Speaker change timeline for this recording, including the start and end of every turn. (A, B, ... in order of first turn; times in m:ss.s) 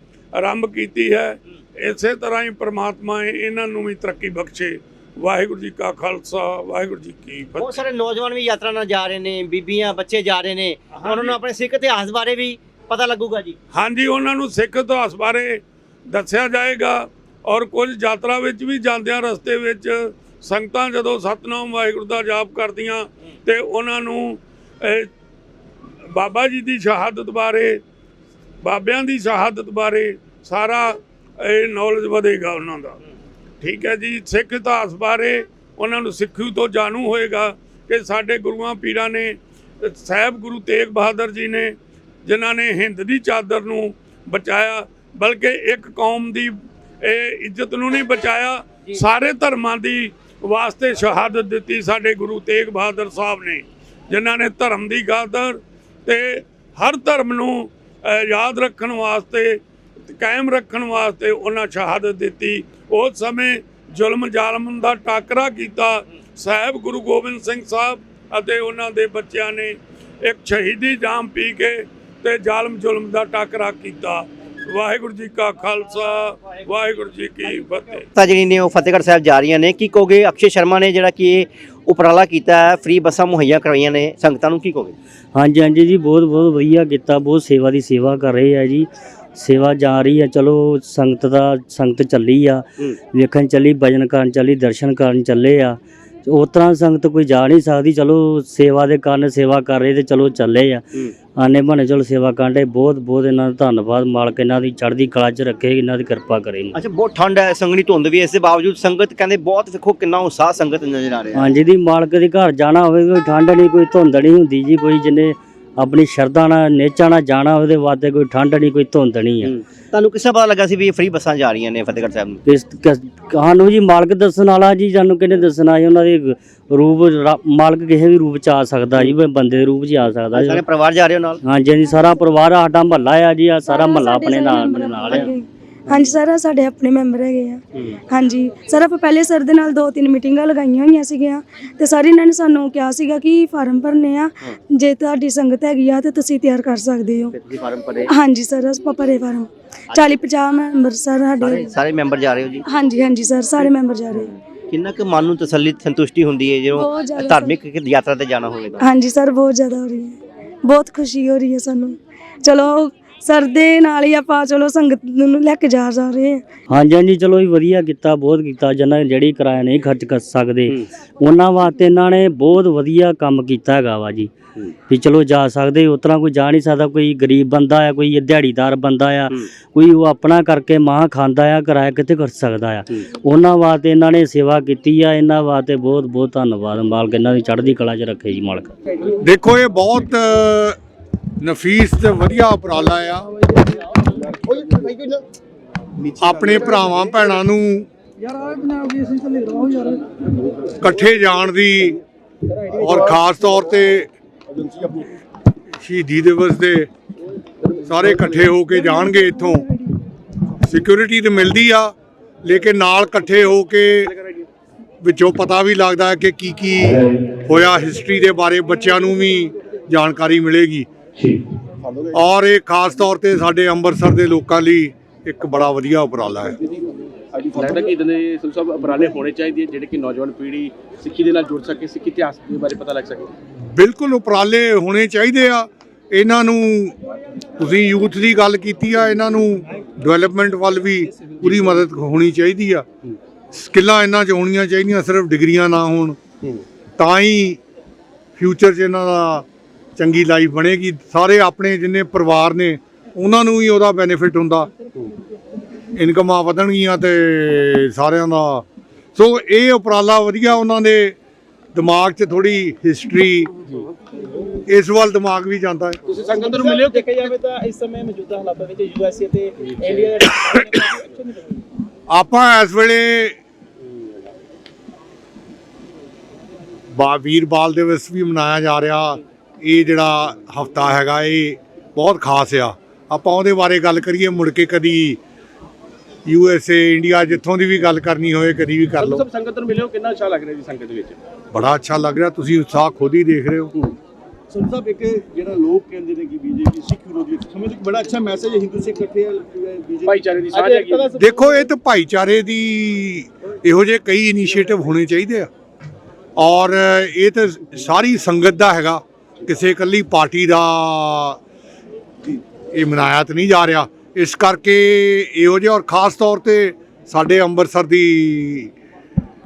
0:00.4-0:07.8 A
0:07.6-0:13.6 B
0:11.0-0:11.4 A
0:13.7-0:25.1 A
0:26.1-0:27.8 A
0:28.6-0:33.0 A
0:33.6-0:41.7 A
0:42.2-1:18.0 A
1:18.1-1:25.0 B
1:25.3-1:46.8 C
1:46.7-1:51.6 B
1:51.4-1:59.6 C
1:59.9-2:02.4 B
2:02.5-2:10.6 C
2:10.3-2:11.4 B
2:11.4-2:15.3 C
2:13.6-2:27.3 D
2:27.3-2:28.1 B
2:28.1-2:31.7 D
2:31.4-2:32.6 B
2:32.6-2:34.3 D
2:34.2-2:38.8 B
2:36.7-2:37.5 D
2:38.8-2:46.5 D
2:46.7-2:54.3 C
2:54.9-3:08.7 C
3:09.2-3:10.8 E
3:11.4-3:13.3 E
3:14.1-3:15.2 F
3:16.0-3:16.8 F
3:16.2-3:17.9 E
3:18.4-3:20.0 F
3:20.8-3:22.0 E
3:22.7-3:23.1 G
3:22.8-3:24.1 E
3:24.6-3:25.1 F
3:25.8-3:26.9 E
3:27.8-3:29.7 E
3:30.6-3:34.1 E
3:35.0-3:40.9 E
3:42.1-3:46.6 E
3:47.5-3:47.9 F
3:47.5-3:53.3 H
3:53.7-3:57.0 E
3:57.6-4:02.8 E
4:03.5-4:06.2 E
4:07.0-4:07.6 E
4:08.4-4:09.4 E
4:10.0-4:14.7 E
4:16.0-4:18.6 E
4:19.2-4:21.2 E
4:21.7-4:23.5 E
4:24.7-4:26.0 E
4:26.1-4:27.4 H
4:26.4-4:31.6 G
4:29.8-4:30.1 H
4:32.1-4:33.4 E
4:36.9-4:45.2 E
4:46.2-4:49.2 E
4:49.0-4:51.2 H
4:51.5-4:53.7 E
4:54.5-5:00.6 F
5:00.0-5:01.1 H
5:00.5-5:01.6 G
5:01.2-5:05.5 E
5:06.4-5:11.4 E
5:12.7-5:18.7 E